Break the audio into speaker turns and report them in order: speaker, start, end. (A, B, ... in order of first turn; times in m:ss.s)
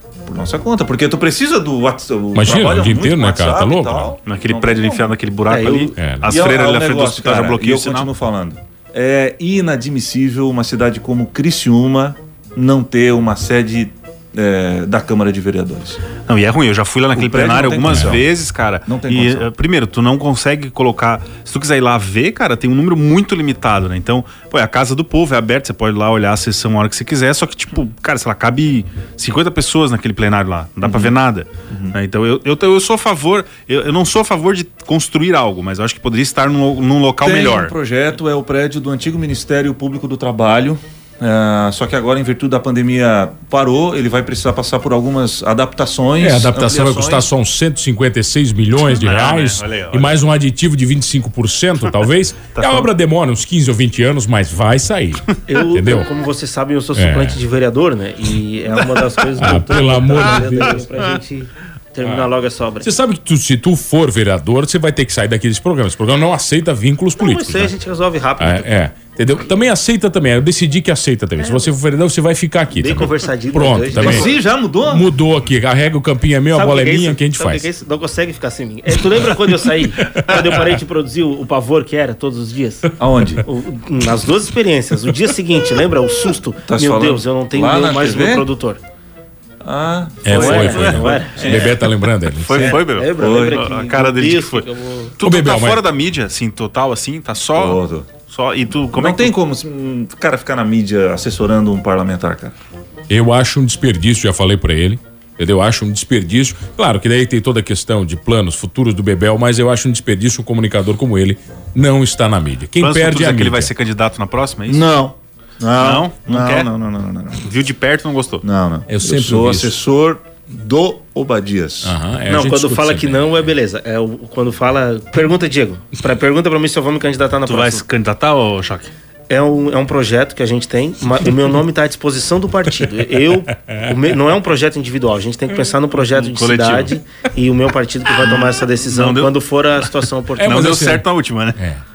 0:00.2-0:05.0 A
0:02.3-0:04.2 B
0:04.2-0:08.1 C
0:05.5-0:05.9 D
0:06.0-0:06.5 B
0:06.3-0:16.0 A
0:16.2-0:37.7 C
0:17.1-0:18.2 A
0:17.9-0:18.2 B
0:18.8-0:19.5 A
0:30.8-0:31.1 A
0:31.7-0:32.0 A
0:37.2-0:47.3 A
0:46.2-0:56.1 B
0:48.9-0:50.2 C
0:52.5-0:52.9 C
0:55.4-1:02.9 D
0:56.9-0:57.4 B
0:59.3-1:00.8 B
1:02.8-1:07.7 B
1:07.2-1:08.7 D
1:08.4-1:17.6 B
1:11.4-1:11.7 D
1:12.7-1:14.3 D
1:14.0-1:15.1 A
1:16.5-1:28.8 D
1:20.1-1:20.6 B
1:23.0-1:23.4 A
1:26.6-1:28.5 A
1:29.6-1:31.8 A
1:30.2-1:32.8 B
1:30.3-1:31.6 D
1:30.9-1:31.7 C
1:32.4-1:34.7 C
1:32.5-1:33.6 A
1:32.8-1:35.1 D
1:35.2-1:39.4 C
1:35.2-1:35.8 B
1:37.6-1:38.1 A
1:38.9-1:42.5 A
1:43.1-1:53.7 B
1:52.8-1:55.0 C
1:54.7-1:57.4 A
1:55.8-1:56.7 C
1:57.4-1:58.4 C
1:58.4-2:02.0 A
1:58.9-1:59.7 B
2:01.8-2:03.4 B
2:02.3-2:07.8 D
2:07.4-2:08.9 C
2:09.3-2:20.8 D
2:16.0-2:16.9 C
2:18.2-2:19.4 C
2:20.4-2:21.8 B
2:20.4-2:21.6 C